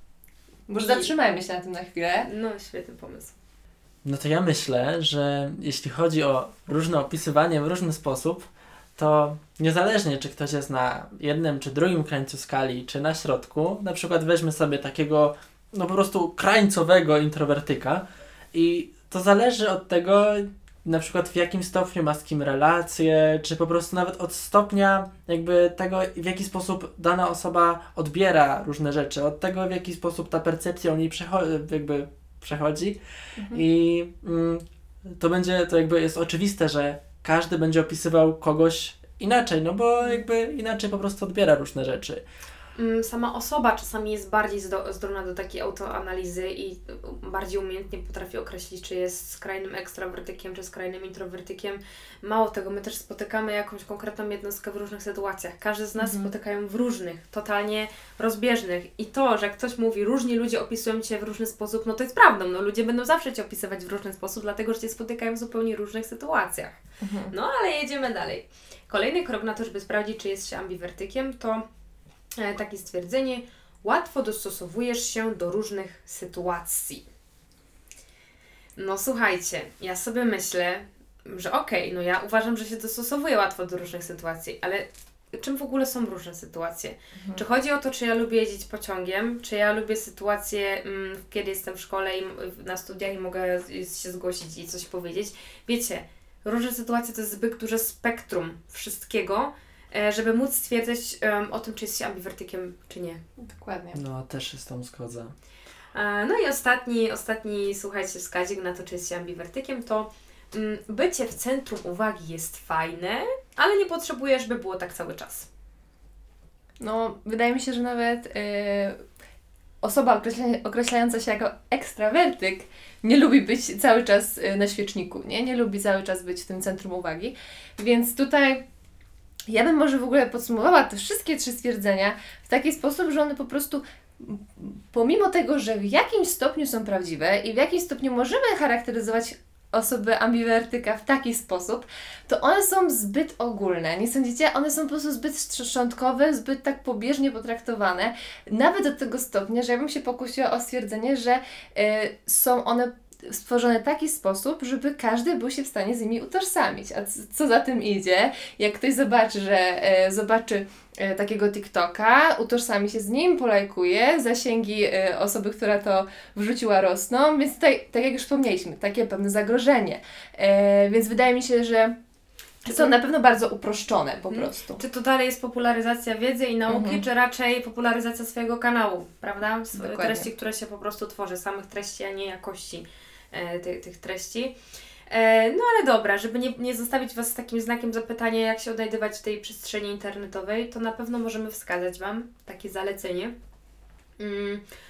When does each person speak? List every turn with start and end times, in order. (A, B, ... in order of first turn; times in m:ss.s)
0:00.7-0:02.3 A
0:00.8-0:01.1 B
0:02.2-0:03.4 B
0:04.0-0:33.0 C
0:33.4-0:33.6 A
0:33.5-0:34.6 C
0:35.2-0:42.2 C
0:42.8-1:06.8 B
0:56.0-0:56.3 A
1:07.0-1:07.3 A
1:07.3-1:11.6 B
1:12.4-1:17.1 B
1:18.8-1:43.2 B
1:27.2-1:27.4 A
1:43.4-1:44.0 A
1:43.9-1:45.3 C
1:45.9-1:55.5 B
1:56.8-1:59.0 A
1:59.8-2:08.6 A
2:09.5-2:52.0 A
2:52.6-2:52.9 B
2:52.6-2:54.8 A
2:54.3-3:04.6 B
2:56.7-2:57.0 A
2:59.8-3:00.3 A
3:05.1-3:13.4 B
3:14.2-3:14.6 B